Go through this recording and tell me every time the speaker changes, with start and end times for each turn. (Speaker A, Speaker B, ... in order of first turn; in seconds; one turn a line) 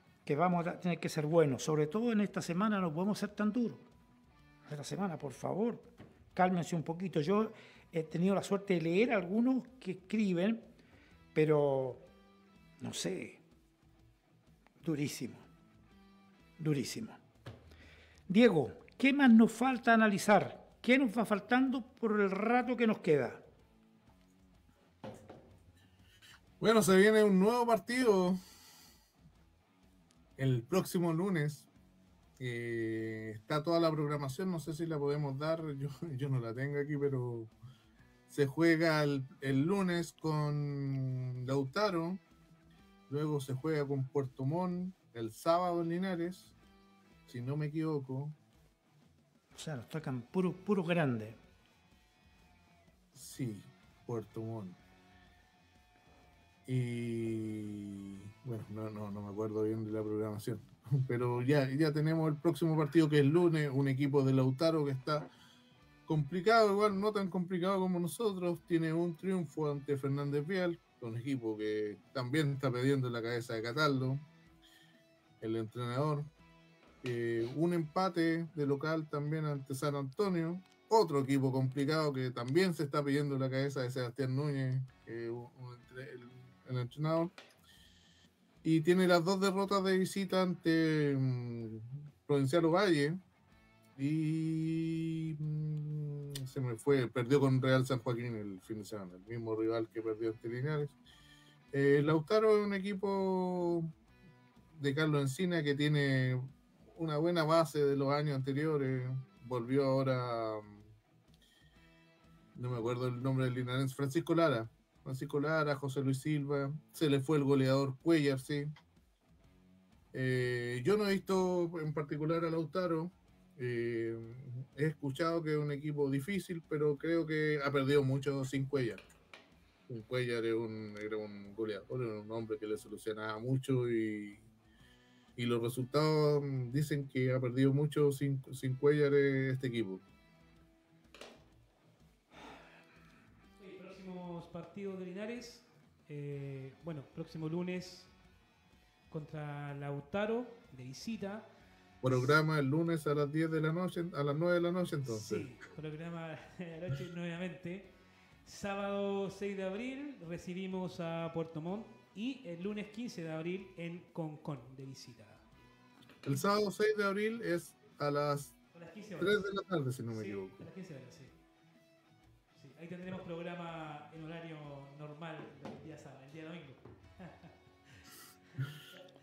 Speaker A: 0.2-3.8
Speaker A: 4.7-10.7
Speaker A: 11.3-12.1
Speaker A: 12.8-13.4
Speaker A: 14.8-15.4
Speaker A: 16.6-17.2
Speaker A: 18.3-23.4
Speaker B: 26.6-28.4
Speaker B: 30.4-31.7
Speaker B: 32.4-37.5
Speaker B: 38.3-42.2
Speaker B: 43.1-46.5
Speaker B: 47.3-48.4
Speaker A: 49.5-51.4
Speaker B: 53.1-54.8
Speaker B: 56.6-65.3
Speaker B: 66.0-74.2
Speaker B: 75.4-76.3
Speaker B: 77.0-87.3
Speaker B: 88.6-93.2
Speaker B: 94.0-101.0
Speaker B: 101.7-103.9
Speaker B: 104.8-110.8
Speaker B: 112.5-118.7
Speaker B: 120.1-129.0
Speaker B: 129.9-134.4
Speaker B: 135.4-140.0
Speaker C: 143.6-148.1
Speaker C: 149.1-151.5
Speaker B: 152.0-155.5
Speaker C: 155.1-157.9
Speaker C: 158.4-165.4
Speaker B: 166.2-168.6
Speaker C: 168.7-169.5
Speaker B: 169.2-170.6
Speaker C: 170.1-171.3
Speaker C: 172.5-177.5